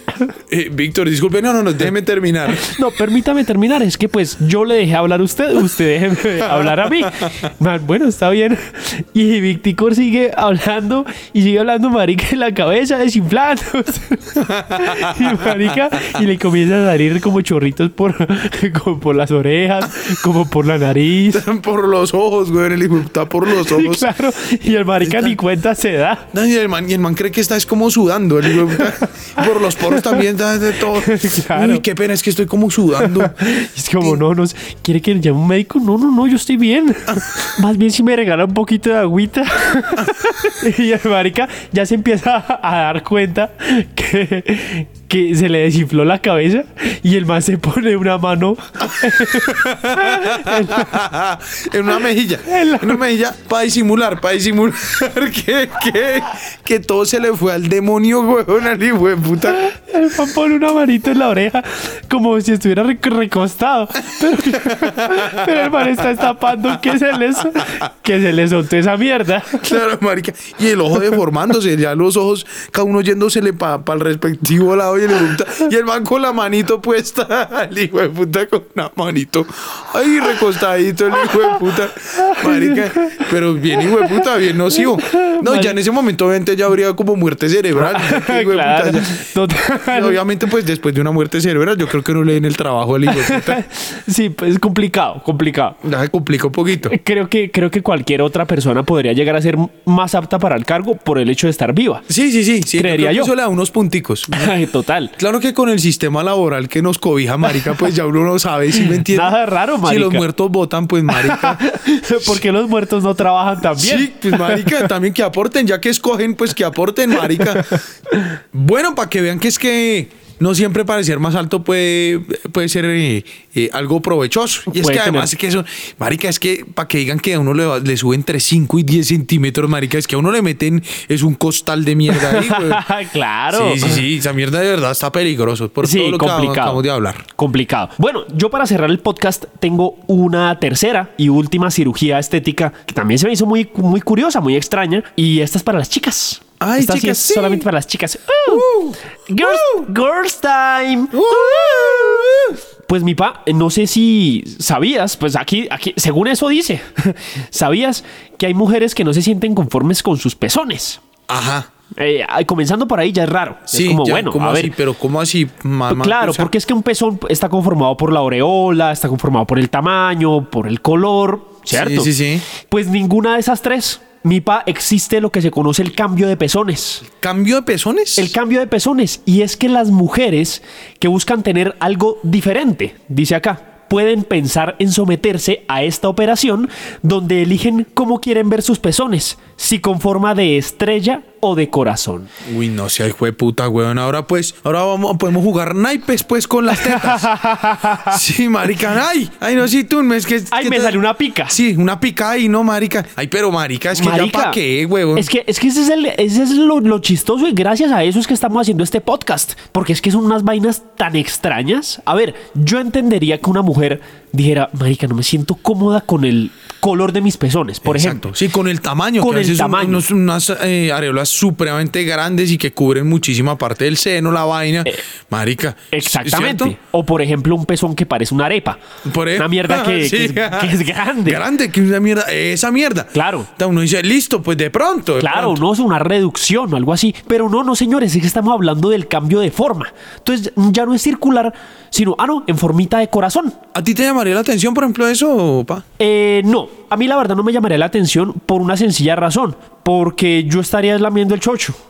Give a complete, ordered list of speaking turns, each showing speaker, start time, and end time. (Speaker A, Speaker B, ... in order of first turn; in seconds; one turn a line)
Speaker A: 0.5-2.7
Speaker B: 2.5-21.4
Speaker A: 6.4-7.3
Speaker A: 14.4-16.1
Speaker A: 21.3-24.1
Speaker B: 23.5-26.3
Speaker A: 25.0-25.4
Speaker A: 26.3-33.4
Speaker B: 28.5-30.3
Speaker B: 30.8-31.8
Speaker B: 33.0-51.0
Speaker A: 49.0-59.6
Speaker B: 52.5-53.0
Speaker B: 59.5-69.7
Speaker A: 64.2-66.0
Speaker A: 69.5-89.2
Speaker B: 81.2-81.6
Speaker B: 82.1-83.3
Speaker B: 83.8-84.2
Speaker B: 85.0-85.8
Speaker B: 87.8-90.2
Speaker A: 89.8-93.6
Speaker B: 93.1-95.8
Speaker A: 95.8-97.0
Speaker B: 96.9-102.1
Speaker A: 102.1-104.5
Speaker B: 102.8-103.3
Speaker B: 104.3-105.1
Speaker A: 105.2-112.4
Speaker B: 107.5-107.8
Speaker B: 108.8-110.2
Speaker B: 111.1-114.9
Speaker A: 113.7-117.8
Speaker B: 117.2-118.3
Speaker A: 118.5-132.8
Speaker B: 124.8-125.3
Speaker B: 132.1-134.0
Speaker A: 133.5-137.3
Speaker B: 135.8-136.8
Speaker B: 137.4-161.0
Speaker A: 146.6-147.7
Speaker A: 148.5-149.9
Speaker A: 151.1-152.6
Speaker A: 161.3-161.7
Speaker B: 162.0-164.7
Speaker A: 163.7-166.5
Speaker B: 165.9-177.1
Speaker A: 171.7-172.5
Speaker A: 177.1-178.3
Speaker B: 178.2-192.3
Speaker A: 192.4-197.3
Speaker B: 196.8-198.2
Speaker A: 198.1-205.3
Speaker B: 200.5-201.6
Speaker B: 203.9-204.6
Speaker B: 205.1-218.3
Speaker A: 217.8-226.8
Speaker B: 219.2-220.0
Speaker B: 225.9-228.8
Speaker A: 229.1-235.6
Speaker B: 229.4-231.4
Speaker B: 233.1-233.5
Speaker B: 235.2-243.6
Speaker A: 243.7-245.8
Speaker B: 246.0-251.8